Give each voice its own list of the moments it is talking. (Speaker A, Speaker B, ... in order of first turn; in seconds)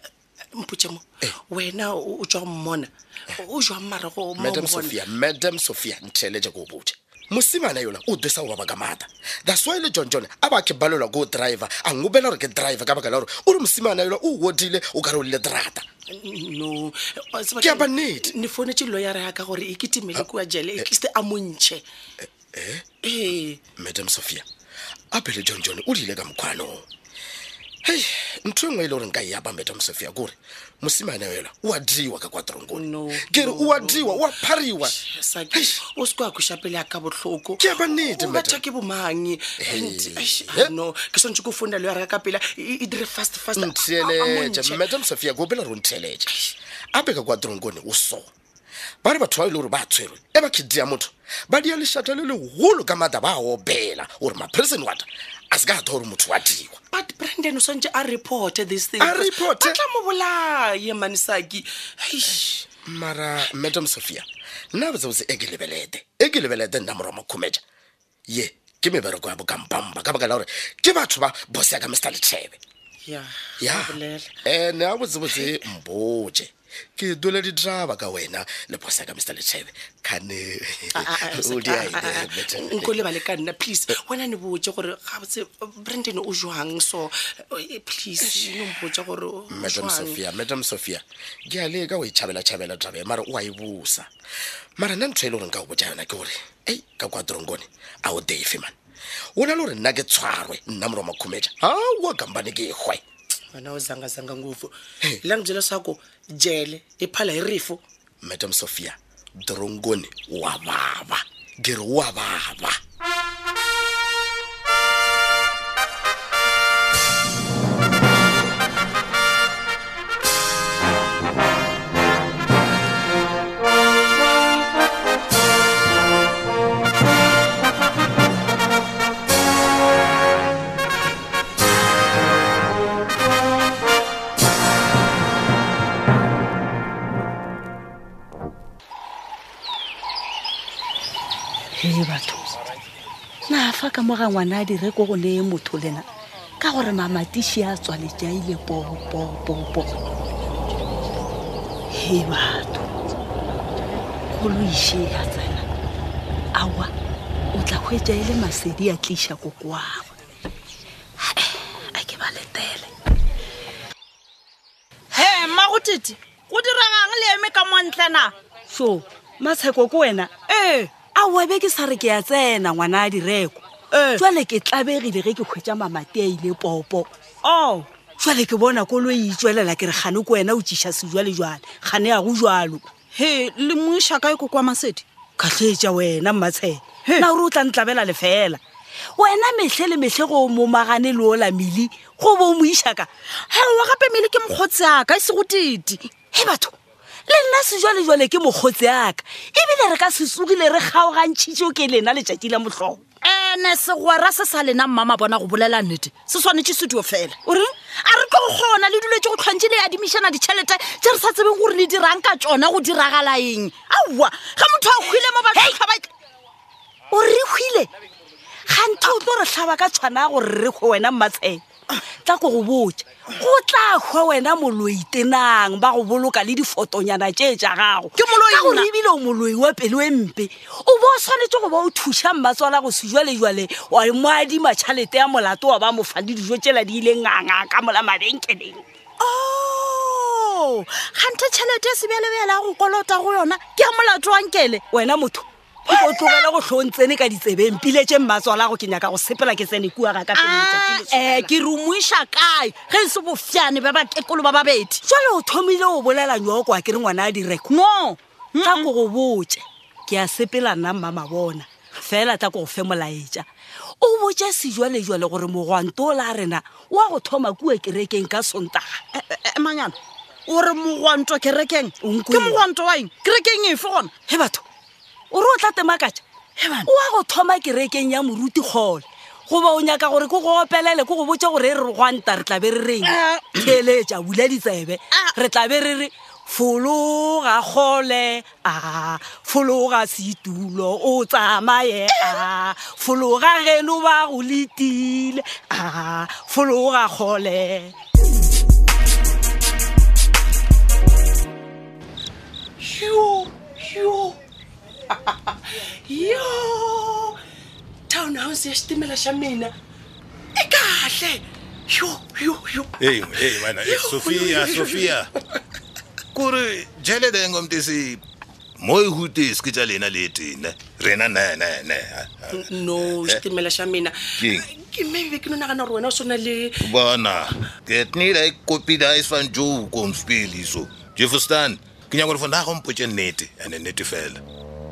Speaker A: 0.6-5.0, 16.1-21.8, 23.0-23.6, 32.7-34.3, 34.8-44.8, 56.9-62.5, 73.0-74.3, 81.0-90.2, 103.5-107.8, 302.8-304.4, 305.1-305.5, 306.1-307.4, 308.1-309.7, 310.6-315.1, 322.6-326.7
Speaker B: 4.4-15.8, 17.6-18.3, 22.2-22.9, 23.8-24.4, 25.1-26.9, 27.8-34.9, 35.5-35.8, 37.6-38.6, 39.6-40.7, 43.5-48.3, 49.0-56.8, 59.0-59.8, 62.7-67.6, 68.3-72.6, 73.6-83.1, 88.2-88.6, 89.5-94.1, 94.8-98.8, 99.4-103.0, 108.2-112.8
Speaker C: 141.8-142.5, 143.5-146.1, 146.6-149.9, 151.9-152.9, 154.3-155.6, 156.5-156.9, 157.5-160.1, 161.2-162.9, 168.7-182.9, 185.4-188.6, 189.2-193.1, 196.3-196.7, 197.3-203.0, 217.1-217.9, 218.7-221.6, 222.2-238.8, 244.8-251.5, 255.0-257.8, 258.6-263.5, 264.0-269.0, 272.0-272.6, 274.2-274.6, 275.3-276.2, 276.8-297.9
Speaker D: 165.1-168.3, 173.9-174.2, 183.1-185.0, 193.5-196.1, 203.2-216.1, 228.3-228.8, 239.2-244.8, 245.9-246.5, 250.3-255.0, 257.7-258.9, 269.1-270.0, 270.5-274.1, 276.6-276.9, 283.1-283.5
Speaker E: 313.0-315.3, 316.3-318.2, 318.8-323.4, 324.4-324.7, 326.8-334.4